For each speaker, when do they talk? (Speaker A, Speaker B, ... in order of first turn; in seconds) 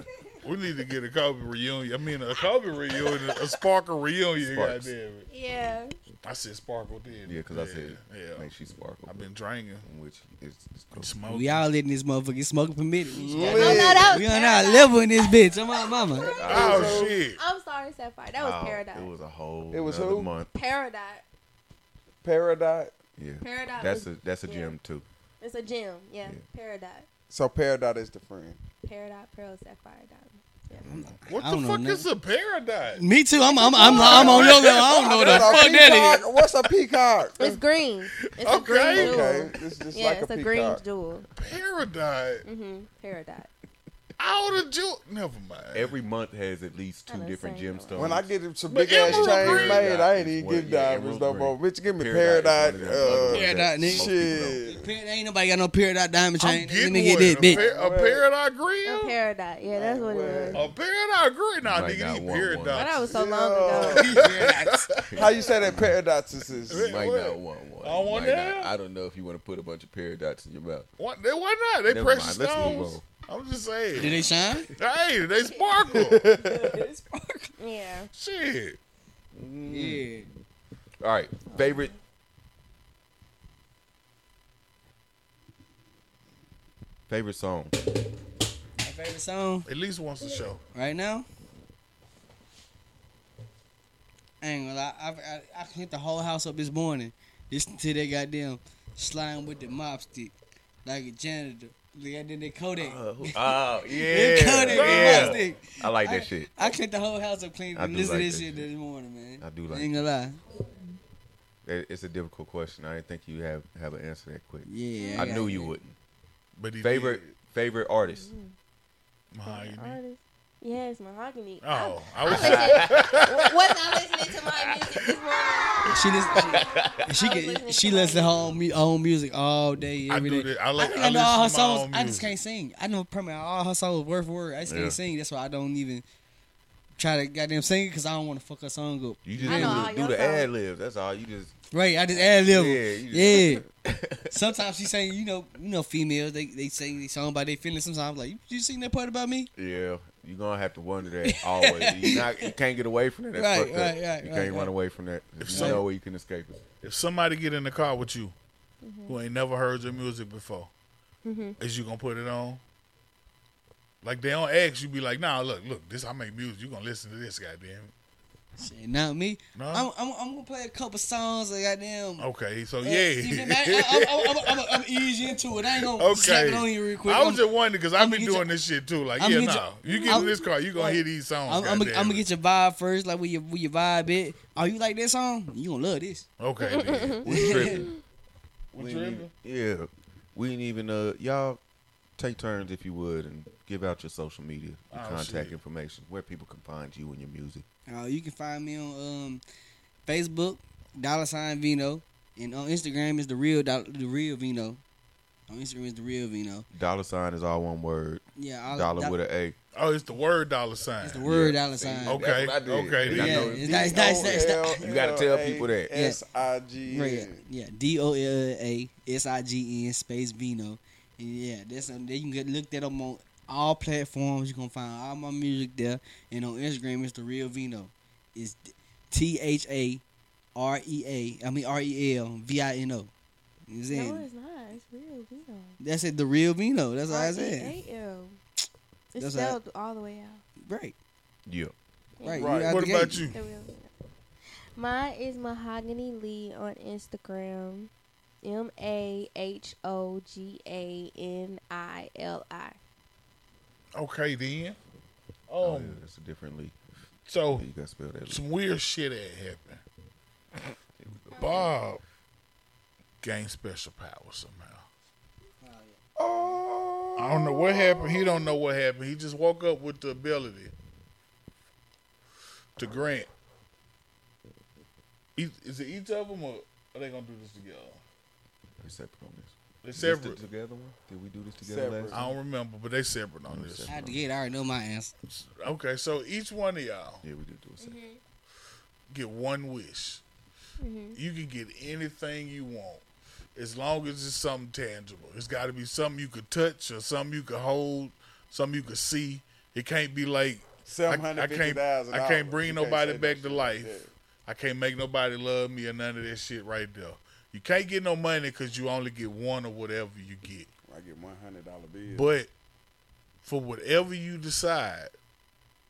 Speaker A: 0.4-5.3, 6.2-8.5, 9.1-9.9, 10.9-11.7, 16.5-17.4, 31.3-33.0, 33.8-36.2, 38.2-39.4, 41.4-42.4, 44.2-46.0, 48.7-49.9, 56.4-59.1, 60.5-63.1, 64.0-65.1, 66.7-68.7, 71.0-76.2, 78.1-78.8, 89.7-90.6, 104.7-105.5, 116.6-117.3, 119.3-120.0, 121.6-123.4, 130.1-132.3, 155.4-155.8, 156.8-158.3, 159.1-160.7, 161.6-162.6, 164.0-167.9, 169.6-169.9, 172.2-174.9, 175.8-182.2, 186.4-187.8, 188.7-189.3, 194.9-195.6, 209.7-211.3, 212.1-213.6, 242.7-243.4, 253.9-254.8, 255.5-256.0, 257.3-257.7, 258.3-259.8, 261.4-262.0, 263.2-264.9, 267.2-270.7, 272.8-273.3, 275.4-278.0, 279.8-280.4, 282.1-283.9, 285.3-287.2, 289.1-290.2, 291.2-293.0, 293.6-310.7, 312.1-312.5, 313.4-315.1
Speaker B: 4.4-4.9, 7.3-9.3, 9.8-11.1, 16.4-17.1, 18.4-20.5, 23.2-25.0, 30.8-31.1, 45.7-48.3, 49.0-54.6, 61.6-62.9, 65.1-66.0, 66.7-70.9, 71.9-73.0, 79.3-80.1, 81.0-81.9, 87.1-87.8, 102.8-106.8, 107.8-108.7, 109.4-110.1, 111.7-116.0, 116.8-118.3, 122.2-123.3, 124.6-125.1, 126.3-127.0, 134.7-135.0, 139.2-141.5, 142.1-144.3, 149.6-156.6, 187.2-187.9, 188.8-191.6, 192.2-197.7, 206.7-209.6, 211.2-215.9, 241.5-241.7, 255.6-256.8, 257.6-258.4, 261.0-261.7, 278.8-282.3, 283.5-284.2, 287.2-287.9
Speaker C: 5.3-5.9, 13.5-19.1, 20.5-21.2, 23.4-24.8, 25.4-27.1, 28.8-30.9, 33.5-34.4, 37.4-41.3, 42.5-43.5, 47.1-48.1, 58.9-60.6, 62.7-64.1, 72.6-72.9, 75.4-75.9, 77.6-78.1, 81.5-81.9, 115.0-115.5, 118.1-118.5, 119.4-128.4, 139.4-140.5, 158.8-159.2, 161.2-161.6, 179.8-180.4, 186.6-187.2, 233.9-235.8, 237.1-238.4, 239.1-240.4, 242.2-242.7, 243.3-243.9, 244.8-247.9, 248.4-252.8, 261.4-261.6, 287.8-288.2, 290.8-291.2
Speaker D: 11.3-16.4, 30.9-32.1, 33.0-36.2, 53.0-54.1, 54.6-57.6, 63.7-64.9, 74.0-74.7, 76.4-77.5, 79.7-80.3, 88.8-89.7, 90.7-91.3, 94.4-100.3, 100.8-110.4, 114.7-115.8, 125.9-136.0, 137.0-139.9, 141.7-143.6, 144.3-149.5, 151.2-152.5, 153.3-154.7, 155.5-155.8, 168.6-172.3, 172.8-178.5, 179.2-186.3, 187.3-187.9, 197.9-199.4, 200.1-204.8, 205.5-206.7, 208.4-209.2, 211.0-212.2, 213.1-214.8, 215.9-216.2, 216.8-230.0, 230.6-233.1, 233.7-234.3, 235.8-237.7, 239.2-239.6, 240.6-240.9, 242.2-243.3, 265.6-266.6, 283.9-285.1
Speaker E: 13.2-14.2, 16.4-17.2, 19.7-20.3, 22.2-22.9, 27.3-28.6, 33.9-37.6, 38.9-40.8, 48.0-54.9, 57.4-58.2, 59.7-60.7, 63.1-64.2, 65.2-66.8, 75.9-76.8, 213.4-217.4, 242.3-242.8, 266.2-268.6, 281.6-282.3, 300.9-304.1, 310.9-312.3